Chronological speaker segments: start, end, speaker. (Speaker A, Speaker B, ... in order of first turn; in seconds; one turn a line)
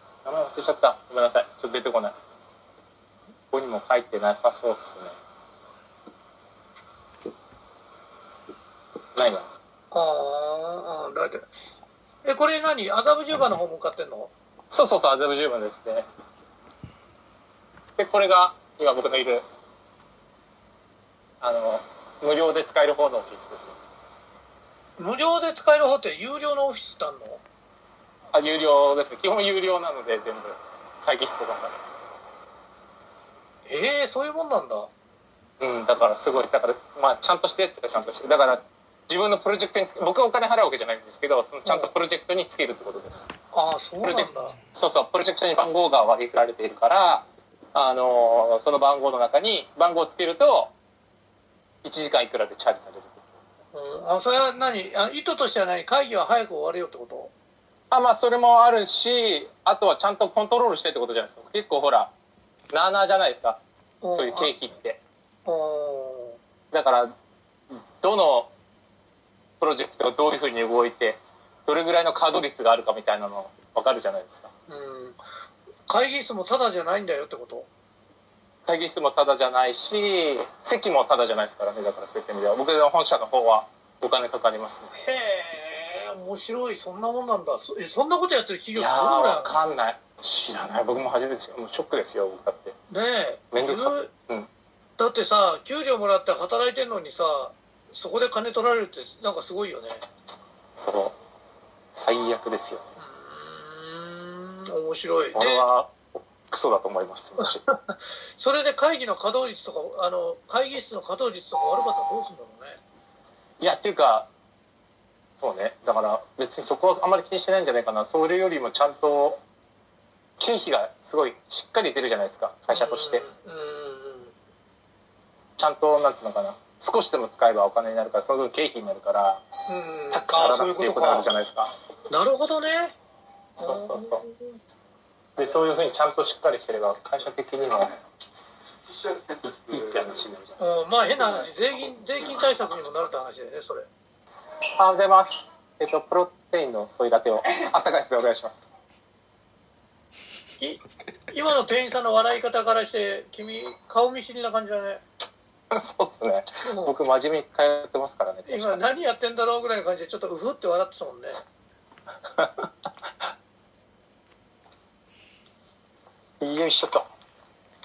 Speaker A: 0.2-2.1
Speaker A: 3.5-5.2
Speaker A: 9.1-9.5
Speaker B: 9.9-11.5
Speaker B: 12.2-14.3
Speaker A: 14.7-16.1
Speaker A: 17.9-19.4
Speaker A: 21.4-23.8
Speaker B: 25.0-27.4
Speaker A: 28.3-31.8
Speaker B: 33.7-34.9
Speaker A: 35.6-43.3
Speaker B: 41.6-41.9
Speaker B: 43.5-44.5
Speaker A: 44.0-50.7
Speaker A: 51.8-53.3
Speaker B: 53.7-57.3
Speaker A: 57.9-62.1
Speaker A: 62.7-63.6
Speaker B: 64.0-64.5
Speaker A: 64.1-65.0
Speaker B: 65.5-66.4
Speaker A: 66.7-67.1
Speaker A: 67.7-68.5
Speaker A: 69.6-74.5
Speaker B: 74.7-75.2
Speaker B: 75.9-77.7
Speaker A: 78.7-84.9
Speaker B: 84.9-89.5
Speaker A: 88.8-92.8
Speaker B: 92.9-94.1
Speaker A: 93.5-94.5
Speaker B: 95.0-100.0
Speaker A: 100.8-101.2
Speaker A: 101.9-102.9
Speaker B: 103.0-105.7
Speaker A: 105.3-107.6
Speaker B: 107.4-112.8
Speaker A: 113.6-114.3
Speaker A: 115.4-119.4
Speaker A: 120.4-123.2
Speaker B: 122.7-124.3
Speaker A: 125.6-129.4
Speaker B: 129.7-131.3
Speaker A: 130.1-131.7
Speaker B: 132.1-132.9
Speaker A: 133.6-134.2
Speaker B: 133.6-134.6
Speaker A: 135.4-137.9
Speaker A: 139.3-140.6
Speaker B: 140.6-143.9
Speaker A: 144.7-148.7
Speaker B: 150.6-155.0
Speaker A: 155.7-158.8
Speaker B: 156.6-156.9
Speaker B: 158.4-161.4
Speaker A: 162.3-162.7
Speaker A: 166.4-167.1